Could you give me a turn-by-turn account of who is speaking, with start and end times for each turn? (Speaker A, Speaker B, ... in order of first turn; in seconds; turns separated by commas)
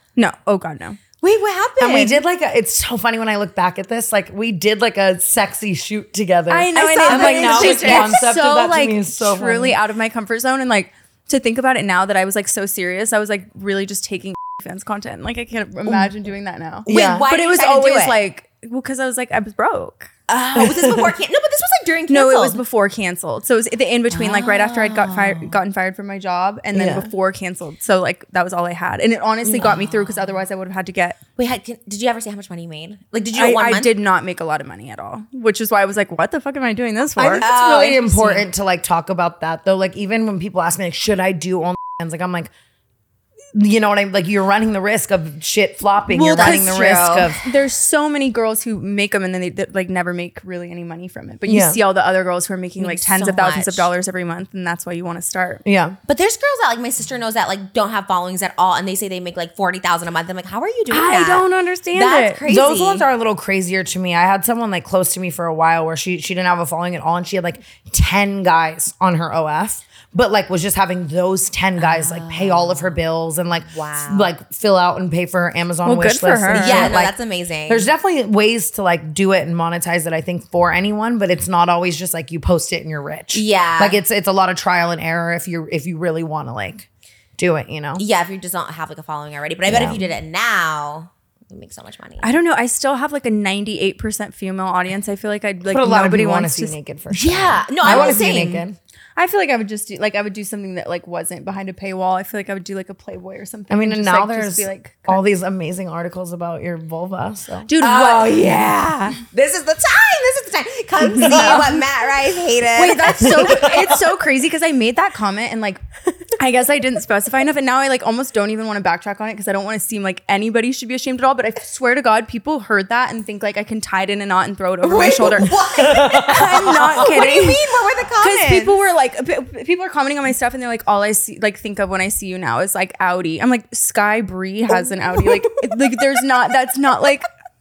Speaker A: 0.2-1.0, Speaker B: 1.2-2.2, Speaker C: 1.8-9.8, Speaker A: 6.5-20.1, Speaker B: 6.8-8.2, Speaker C: 16.9-17.3, Speaker B: 16.9-18.2, Speaker B: 20.3-22.6, Speaker C: 20.6-21.1, Speaker A: 22.1-31.2, Speaker B: 24.1-25.6, Speaker C: 26.7-27.1, Speaker B: 29.5-30.2, Speaker B: 31.4-33.9, Speaker A: 33.3-37.5, Speaker C: 37.2-42.5, Speaker B: 37.4-38.5, Speaker C: 43.5-47.4, Speaker A: 46.1-55.6, Speaker B: 46.2-47.3, Speaker C: 51.5-51.8, Speaker B: 52.8-53.9, Speaker C: 55.6-56.0, Speaker B: 56.1-63.1, Speaker A: 60.9-62.4, Speaker C: 62.5-77.1, Speaker B: 71.8-73.0, Speaker B: 73.7-74.3, Speaker A: 75.8-77.0, Speaker B: 76.6-77.9, Speaker C: 77.7-86.9, Speaker B: 83.3-84.0, Speaker C: 87.4-88.0, Speaker B: 88.0-92.3, Speaker C: 89.7-90.0, Speaker A: 92.2-96.8, Speaker C: 95.7-98.8, Speaker B: 97.1-98.6, Speaker A: 97.8-98.6, Speaker A: 99.2-105.2, Speaker C: 103.7-107.7, Speaker A: 107.7-108.6, Speaker B: 107.8-113.8, Speaker A: 111.0-111.8, Speaker A: 112.8-127.6, Speaker B: 124.8-128.7, Speaker C: 125.6-127.1, Speaker A: 128.2-137.3